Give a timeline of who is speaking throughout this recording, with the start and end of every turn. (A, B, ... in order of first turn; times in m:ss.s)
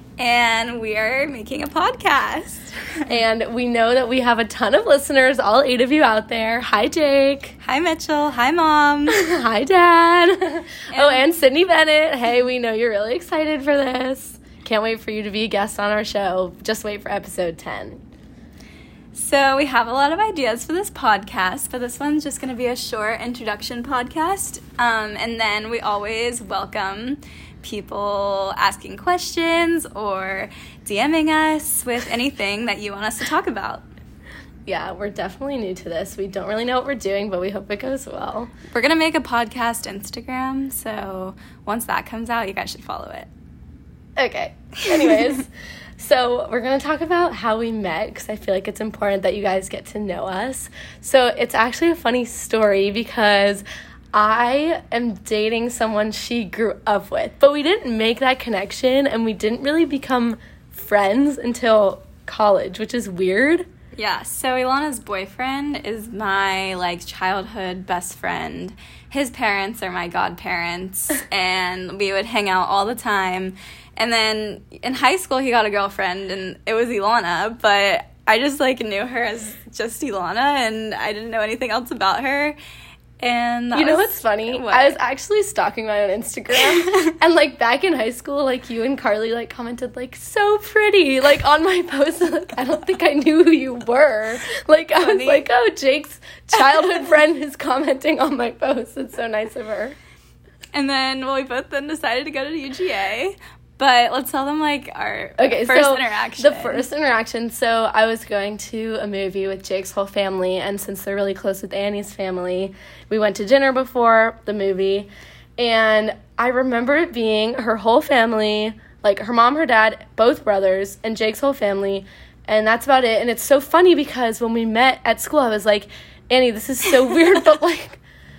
0:00.2-0:03.0 A
0:03.1-0:07.6 B
0:07.6-0:09.2 A
0:09.1-0:18.0 B
0:10.9-0:11.2 A
0:19.1-0:33.9 A
0:34.6-0:38.5 B
0:38.7-0:43.3 A
0:44.2-1:03.6 B
1:03.9-1:22.6 A
1:23.2-1:25.0 A
1:23.7-1:40.0 B
1:26.7-1:27.0 A
1:35.0-1:35.5 A
1:40.7-1:46.8 A
1:45.4-2:08.0 B